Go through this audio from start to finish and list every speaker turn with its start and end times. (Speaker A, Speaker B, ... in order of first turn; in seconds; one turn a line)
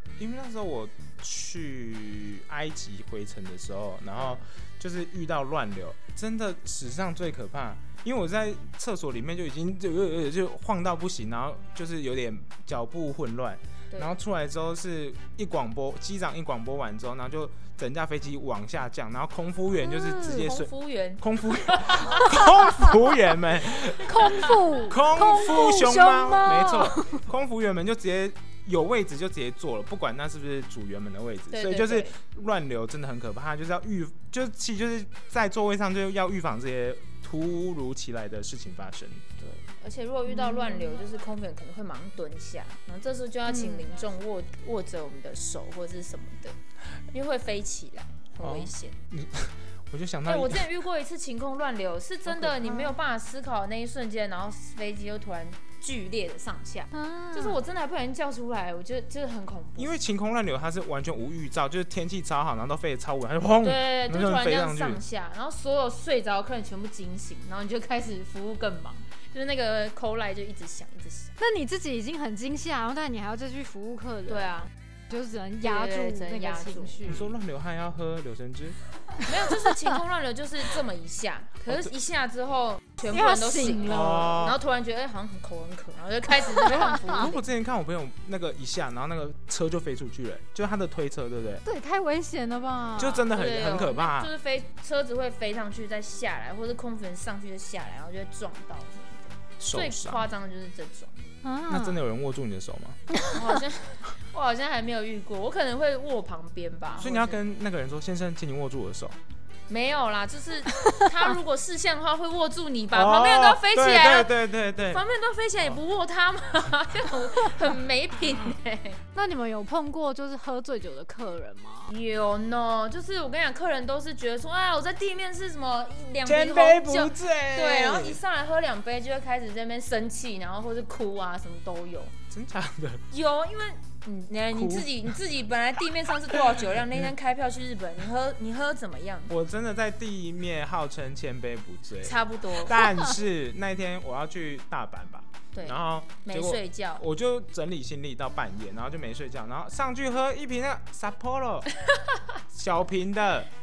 Speaker A: 0.2-39.2
Speaker B: 4.2-4.4
Speaker C: 19.8-20.5
Speaker B: 20.2-22.3
Speaker C: 24.0-27.2
Speaker B: 24.2-24.5
Speaker B: 31.5-32.1
Speaker B: 39.4-46.6
Speaker C: 40.3-40.8
Speaker C: 43.5-43.9
Speaker B: 47.1-49.0
Speaker A: 48.4-50.7
Speaker B: 50.2-59.9
Speaker A: 52.3-52.8
Speaker C: 56.9-57.6
Speaker A: 59.8-65.0
Speaker B: 63.6-71.3
Speaker C: 71.4-77.3
Speaker B: 74.3-74.7
Speaker B: 75.6-77.2
Speaker A: 77.1-78.8
Speaker B: 79.2-87.4
Speaker C: 79.6-79.9
Speaker C: 83.1-84.4
Speaker A: 83.8-84.6
Speaker C: 86.7-87.2
Speaker A: 87.1-91.6
Speaker C: 91.6-93.3
Speaker A: 93.0-94.3
Speaker B: 93.2-101.1
Speaker A: 99.6-100.3
Speaker C: 101.4-102.0
Speaker A: 101.7-103.0
Speaker B: 103.3-107.4
Speaker A: 107.0-109.2
Speaker B: 109.7-119.0
Speaker C: 110.7-111.1
Speaker A: 112.9-115.0
Speaker C: 119.1-121.9
Speaker B: 121.9-132.1
Speaker A: 126.2-128.2
Speaker A: 132.3-133.0
Speaker B: 133.1-139.3
Speaker A: 134.5-135.1
Speaker A: 139.3-151.7
Speaker B: 142.0-142.8
Speaker B: 145.5-147.0
Speaker A: 152.5-153.5